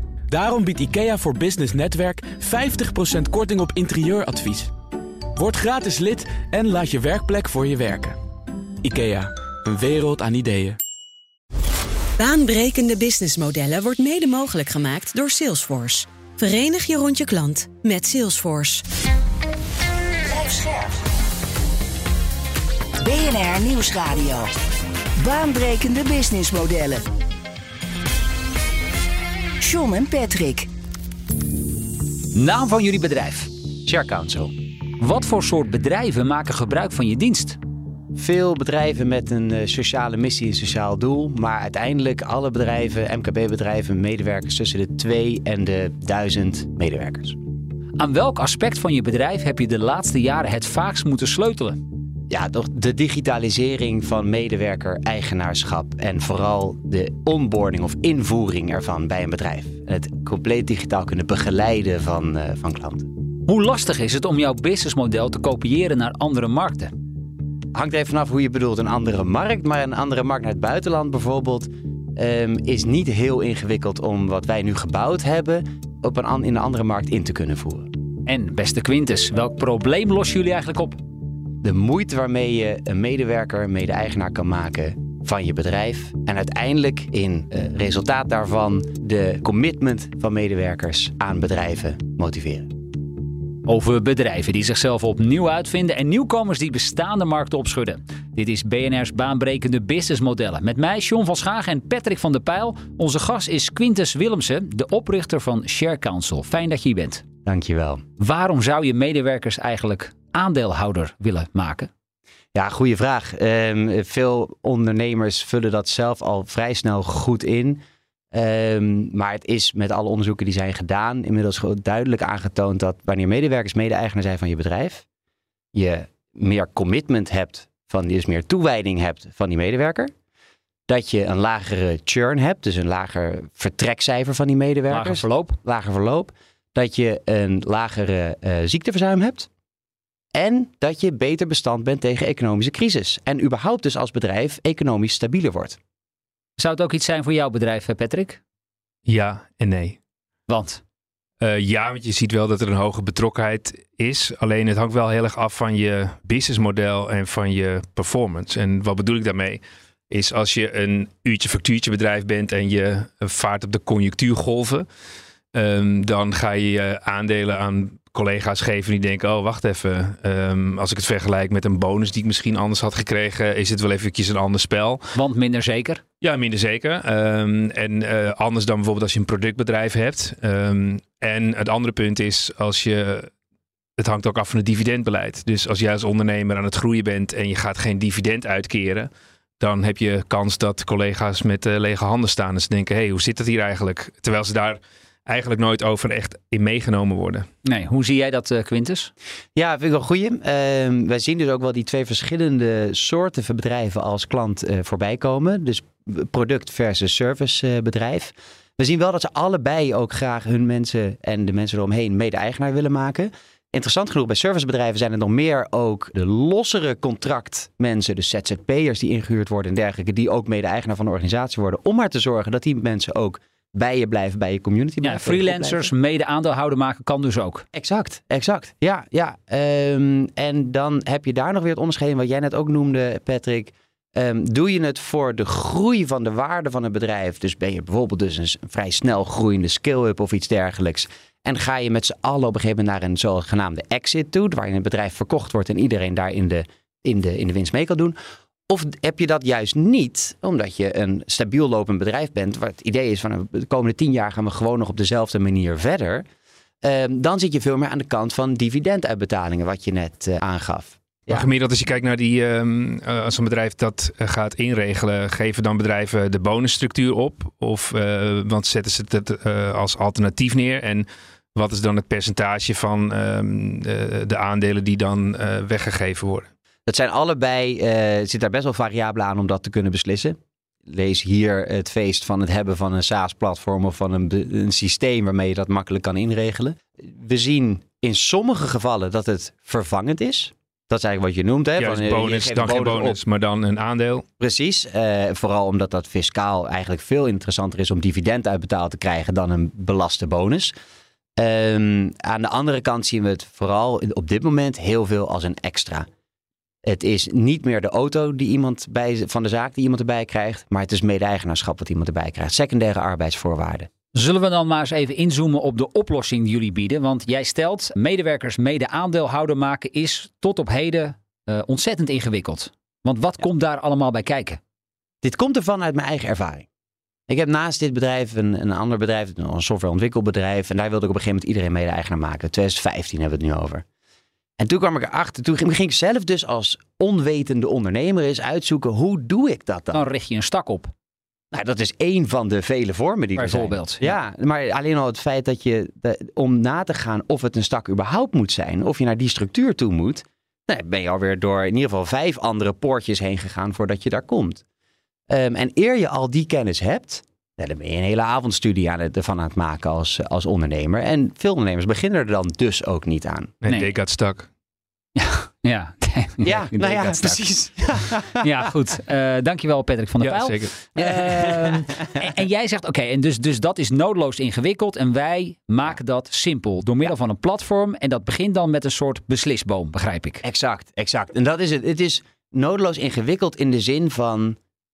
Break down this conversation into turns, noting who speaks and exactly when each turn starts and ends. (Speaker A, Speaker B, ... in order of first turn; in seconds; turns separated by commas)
Speaker A: 0.3-4.7, Speaker A: 5.4-8.2, Speaker A: 8.8-10.8, Speaker B: 12.2-18.8, Speaker C: 20.3-20.9, Speaker C: 23.0-24.5, Speaker C: 25.2-27.0, Speaker C: 29.6-30.7, Speaker D: 32.4-33.5, Speaker E: 33.9-34.5, Speaker D: 35.0-37.6, Speaker E: 38.1-47.4, Speaker D: 48.0-51.8, Speaker E: 52.3-63.1, Speaker D: 63.5-66.9, Speaker E: 67.7-77.9, Speaker D: 78.3-81.0, Speaker E: 81.6-92.8, Speaker D: 93.7-107.2, Speaker E: 107.5-108.0, Speaker D: 108.2-111.9, Speaker E: 112.5-117.8, Speaker E: 118.3-125.0, Speaker E: 125.7-130.1, Speaker E: 130.9-139.5, Speaker D: 134.9-135.6, Speaker E: 140.3-145.8, Speaker D: 146.6-148.4, Speaker F: 149.1-150.0, Speaker D: 150.5-150.8, Speaker F: 151.4-164.9, Speaker F: 165.5-175.0, Speaker D: 175.1-176.0, Speaker F: 176.2-183.3, Speaker F: 184.0-197.5, Speaker D: 197.7-199.1, Speaker E: 199.6-225.9, Speaker D: 225.0-227.7, Speaker E: 227.7-248.2, Speaker E: 248.7-256.3, Speaker E: 256.8-261.5, Speaker F: 261.3-276.5, Speaker E: 276.9-293.2, Speaker F: 291.8-294.3, Speaker E: 294.4-300.7, Speaker E: 301.4-306.1, Speaker E: 306.9-313.9, Speaker D: 314.1-324.6, Speaker E: 325.2-326.7, Speaker E: 327.3-333.8, Speaker E: 334.6-340.1, Speaker D: 339.9-340.9, Speaker E: 341.5-354.6, Speaker D: 343.4-344.1, Speaker E: 355.3-363.5, Speaker F: 363.6-364.5, Speaker D: 365.2-367.4, Speaker E: 366.4-368.5, Speaker D: 368.4-380.4, Speaker F: 370.2-370.7, Speaker E: 371.0-372.2, Speaker E: 380.4-384.6